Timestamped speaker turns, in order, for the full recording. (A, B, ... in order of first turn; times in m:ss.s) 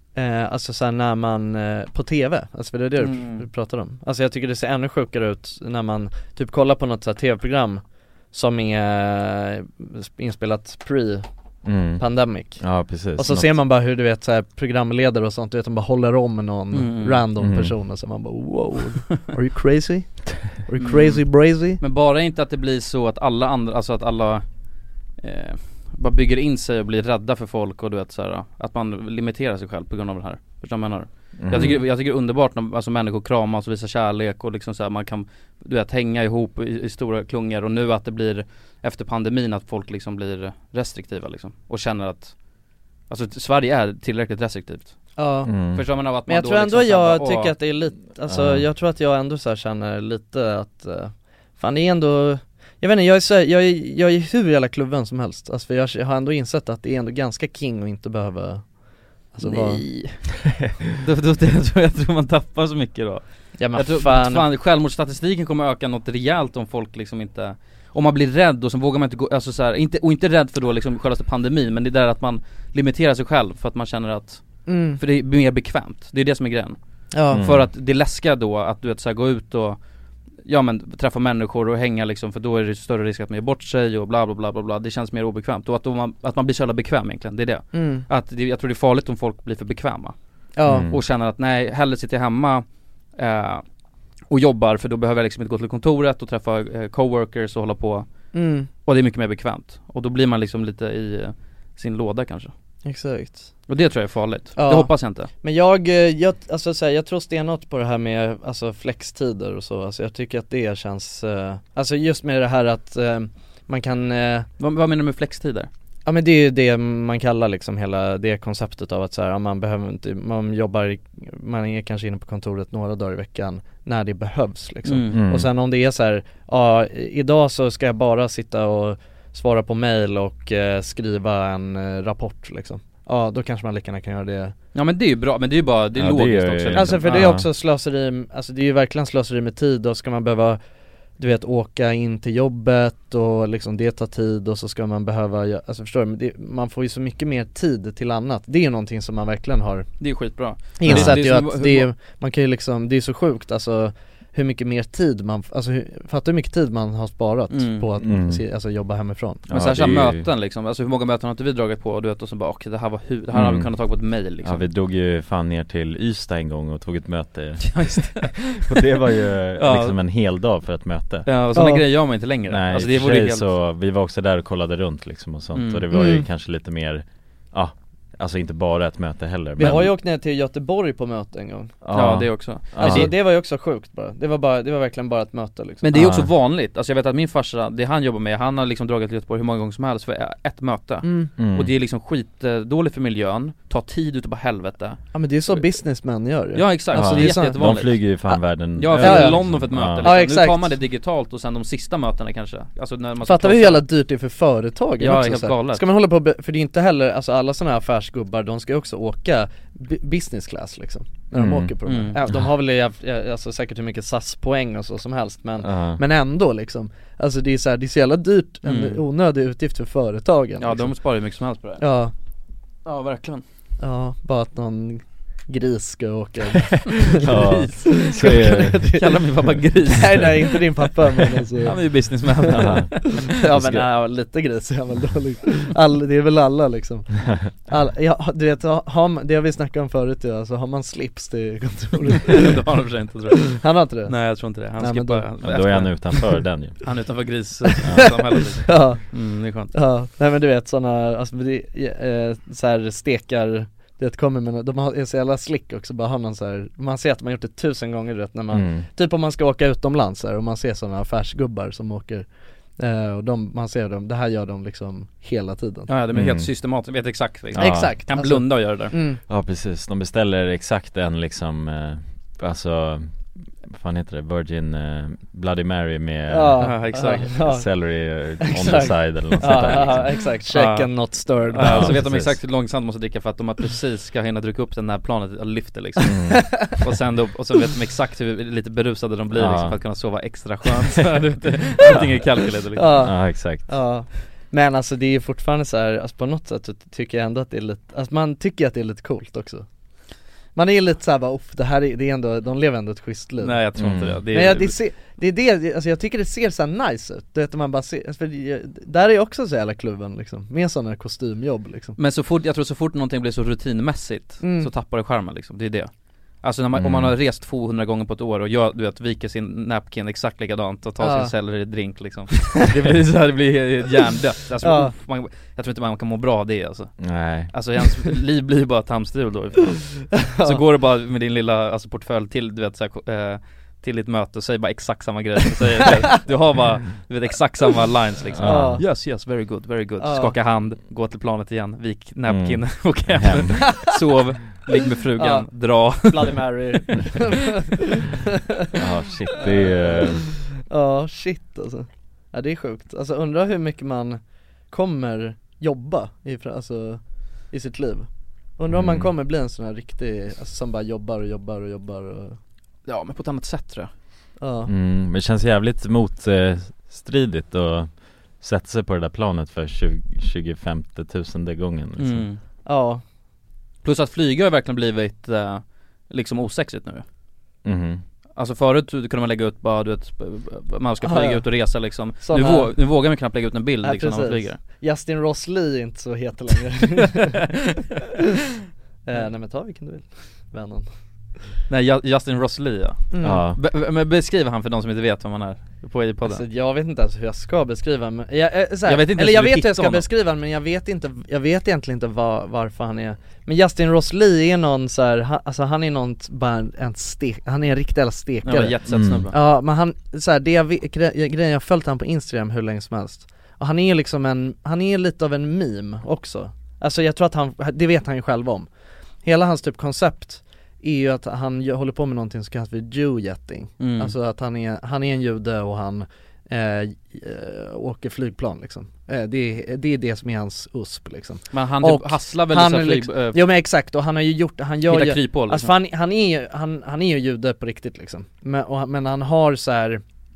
0:00.1-0:11.2 A
0:03.0-0:03.4 B
0:11.6-0:12.0 C
0:12.0-0:21.8 A
0:12.6-0:13.5 C
0:16.7-0:17.2 B
0:17.4-0:17.7 C
0:20.8-0:21.2 B
0:21.8-0:24.4 B
0:25.2-0:42.3 B
0:31.4-0:31.8 C
0:43.1-0:45.0 B
0:45.2-0:45.5 A
0:45.4-0:45.8 C
0:45.7-0:47.5 B
0:46.3-0:59.8 A
0:48.3-0:48.6 C
0:59.4-1:00.3 B
1:00.9-1:16.8 B
1:03.6-1:04.4 A
1:14.7-1:15.0 A
1:17.1-1:17.4 A
1:17.3-1:19.8 B
1:17.3-1:17.7 C
1:20.4-1:30.2 B
1:27.7-1:28.0 A
1:30.6-1:30.9 A
1:30.6-1:31.0 C
1:30.9-1:32.6 B
1:33.2-1:33.6 B
1:34.3-1:38.1 B
1:38.3-1:38.7 A
1:38.8-1:42.5 B
1:42.8-1:43.5 A
1:43.7-1:45.3 B
1:44.6-1:54.5 A
1:54.6-1:55.7 B
1:56.0-2:14.5 A
2:04.8-2:05.2 B
2:05.1-2:05.5 C
2:14.7-2:17.3 B
2:15.9-2:17.5 C
2:16.7-2:20.6 A
2:21.2-2:29.9 A
2:30.0-2:31.9 B
2:30.8-2:39.4 A
2:30.9-2:31.2 C
2:37.5-2:37.9 B
2:38.0-2:38.4 C
2:39.5-2:40.3 C
2:39.5-2:44.6 B
2:43.3-2:43.7 C
2:44.4-2:51.3 C
2:47.6-2:48.9 B
2:49.6-2:50.0 B
2:51.2-2:53.5 B
2:51.5-2:51.8 A
2:52.5-2:59.9 C
2:55.5-2:55.8 B
2:55.9-2:56.2 A
2:59.6-3:01.7 A
2:59.6-2:59.9 B
3:01.8-3:03.1 C
3:01.9-3:03.1 B
3:02.8-3:05.9 A
3:05.8-3:15.6 B
3:05.9-3:06.3 C
3:11.0-3:11.3 A
3:11.4-3:11.7 C
3:15.1-3:17.7 A
3:16.5-3:18.1 B
3:16.9-3:20.1 C
3:18.8-3:23.8 B
3:19.0-3:20.7 A
3:23.2-3:40.9 A
3:25.0-3:25.8 B
3:31.3-3:31.7 C
3:31.8-3:32.2 B
3:35.6-3:36.0 C
3:38.6-3:39.0 B
3:40.6-3:41.8 B
3:41.8-3:42.1 A
3:42.8-3:43.4 B
3:43.8-3:47.3 A
3:47.1-3:48.9 C
3:47.2-3:50.6 B
3:47.8-3:49.2 A
3:49.8-4:02.6 A
3:51.6-3:53.3 B
3:52.5-3:53.9 C
4:02.3-4:09.7 B
4:03.5-4:05.3 A
4:05.4-4:06.9 C
4:07.6-4:09.1 A
4:07.8-4:08.1 C
4:09.7-4:25.9 A
4:18.5-4:18.9 C
4:25.9-4:28.9 B
4:26.1-4:26.5 C
4:27.5-4:27.9 C
4:27.6-4:29.2 A
4:29.2-4:40.2 C
4:36.3-4:37.7 A
4:36.6-4:37.3 B
4:38.4-4:42.1 A
4:39.4-4:53.0 B
4:41.6-4:42.4 C
4:46.1-4:46.5 C
4:46.3-4:46.6 A
4:49.3-4:49.8 C
4:52.8-4:59.6 A
4:53.0-4:53.7 C
5:00.5-5:03.6 A
5:03.4-5:04.8 B
5:03.8-5:04.2 C
5:04.3-5:11.9 A
5:12.0-5:15.9 B
5:14.4-5:14.7 A
5:16.4-5:47.3 B
5:16.7-5:17.1 C
5:21.0-5:21.3 A
5:24.6-5:24.9 A
5:27.0-5:27.5 C
5:30.1-5:30.6 A
5:38.3-5:38.8 C
5:38.4-5:38.8 A
5:40.0-5:40.3 A
5:42.3-5:43.6 C
5:45.2-5:45.5 A
5:46.0-5:48.7 A
5:48.7-5:50.2 C
5:49.3-6:02.4 A
5:58.7-5:59.1 C
6:02.9-6:03.9 B
6:04.4-6:04.7 A
6:04.7-6:12.2 C
6:12.0-6:12.4 B
6:12.6-6:13.0 A
6:13.8-6:17.0 B
6:17.6-6:18.0 C
6:18.4-6:24.6 B
6:21.0-6:21.4 A
6:22.2-6:22.7 A
6:23.8-6:27.4 A
6:29.0-6:30.9 A
6:31.7-6:36.4 B
6:33.1-6:33.4 A
6:33.2-6:33.6 C
6:36.2-6:48.7 A
6:38.8-6:40.0 B
6:48.4-6:49.3 B
6:48.9-6:49.3 C
6:49.3-6:58.7 A
6:59.2-7:20.0 A
7:03.8-7:04.1 B
7:11.5-7:13.4 B
7:14.9-7:15.7 B